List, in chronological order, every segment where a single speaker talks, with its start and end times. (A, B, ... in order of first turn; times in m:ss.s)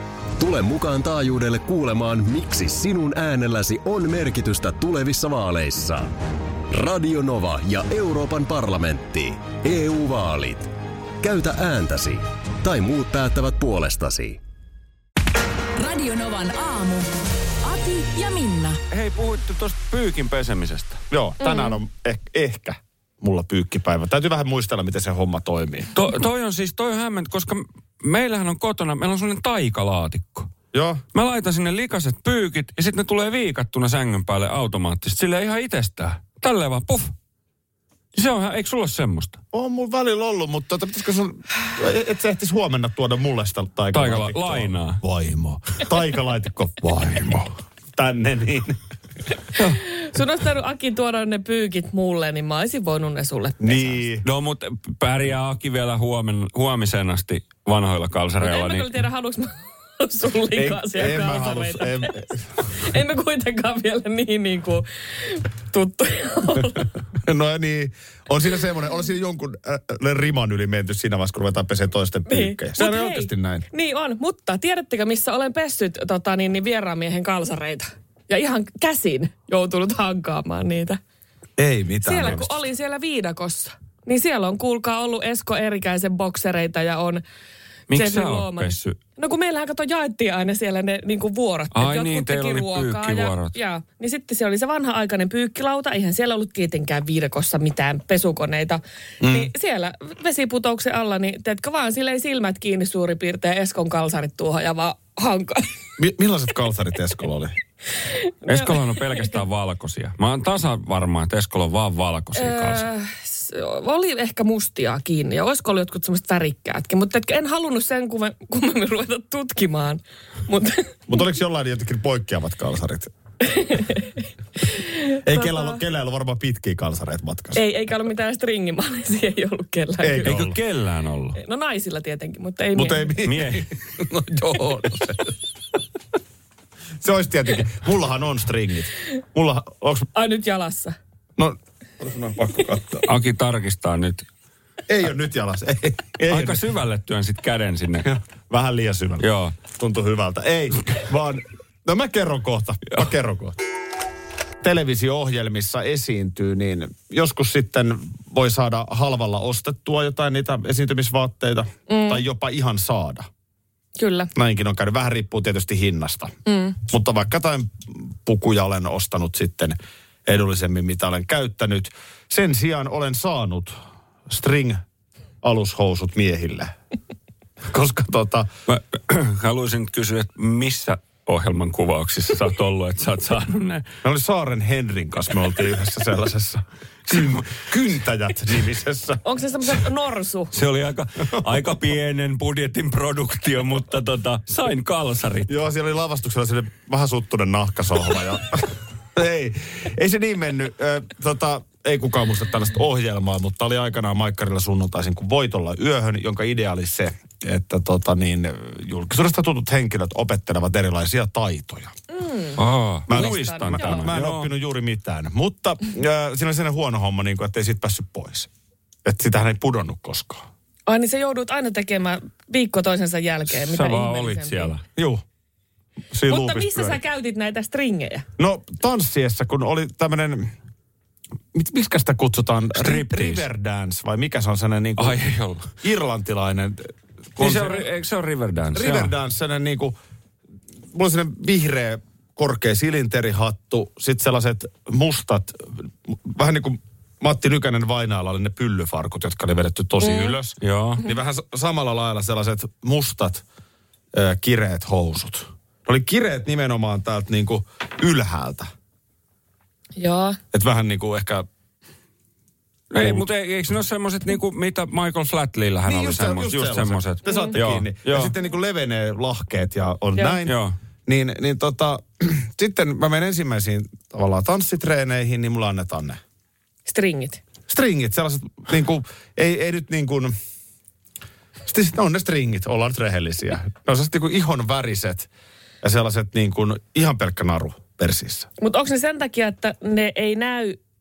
0:00.4-0:06.1 A
0:06.7-0:10.7 A
0:11.2-0:14.4 A
0:15.8-0:17.1 B
0:17.6-0:18.8 B
0:18.9-0:21.0 C
0:21.1-0:25.9 D
0:21.4-0:21.8 E
0:26.0-0:30.5 C
0:30.7-0:31.0 D
0:31.1-0:37.1 C
0:38.2-0:39.4 C
0:39.5-0:48.8 D
0:43.9-0:45.0 C
0:49.5-0:54.0 E
0:53.6-0:54.2 D
0:54.2-0:58.9 C
0:58.4-1:06.9 E
1:00.6-1:02.5 D
1:07.2-1:13.6 D
1:12.3-1:21.0 E
1:21.6-1:22.6 D
1:22.0-1:27.2 E
1:27.9-1:29.0 C
1:27.9-1:45.8 E
1:31.7-1:33.6 C
1:39.2-1:39.5 D
1:46.0-1:47.6 D
1:48.0-1:49.4 E
1:48.5-1:52.9 C
1:52.4-2:01.2 E
2:01.1-2:03.1 D
2:03.4-2:05.8 E
2:05.2-2:07.6 D
2:07.6-2:10.4 E
2:10.0-2:10.6 D
2:10.2-2:11.4 C
2:11.4-2:13.2 E
2:12.8-2:15.4 D
2:13.2-2:13.7 C
2:17.0-2:20.1 D
2:20.2-2:21.0 E
2:21.4-2:23.1 D
2:23.1-2:24.3 C
2:24.9-2:26.6 D
2:26.3-2:28.1 C
2:28.0-2:33.6 D
2:29.2-2:29.6 C
2:34.6-2:43.3 D
2:41.9-2:42.2 E
2:44.0-2:44.3 E
2:44.4-2:46.3 D
2:46.5-2:46.8 E
2:46.9-2:53.8 D
2:54.3-2:54.8 D
2:55.4-2:56.7 D
2:57.7-2:58.5 D
2:58.7-3:03.8 C
3:04.0-3:09.8 D
3:09.2-3:10.5 E
3:10.5-3:15.5 C
3:15.5-3:31.9 D
3:32.1-3:34.1 E
3:32.6-3:34.5 C
3:33.1-3:38.5 D
3:39.0-3:40.4 D
3:40.9-3:44.8 E
3:43.5-3:44.8 C
3:45.0-3:45.2 D
3:46.1-3:47.0 D
3:46.3-3:48.2 E
3:48.4-3:50.5 D
3:51.5-3:55.2 D
3:52.7-3:53.5 C
3:55.0-3:55.7 C
3:55.8-3:57.9 D
3:57.4-3:59.1 C
3:58.7-4:00.0 D
4:00.9-4:13.4 D
4:10.0-4:10.4 E
4:10.6-4:11.0 C
4:14.1-4:18.7 D
4:20.0-4:20.4 E
4:20.5-4:21.5 D
4:22.9-4:28.3 C
4:23.0-4:23.3 D
4:25.8-4:36.2 D
4:27.3-4:27.6 E
4:30.4-4:30.7 C
4:36.9-4:37.4 E
4:37.7-4:40.3 D
4:41.6-4:45.3 D
4:45.8-4:48.5 D
4:48.6-4:50.8 E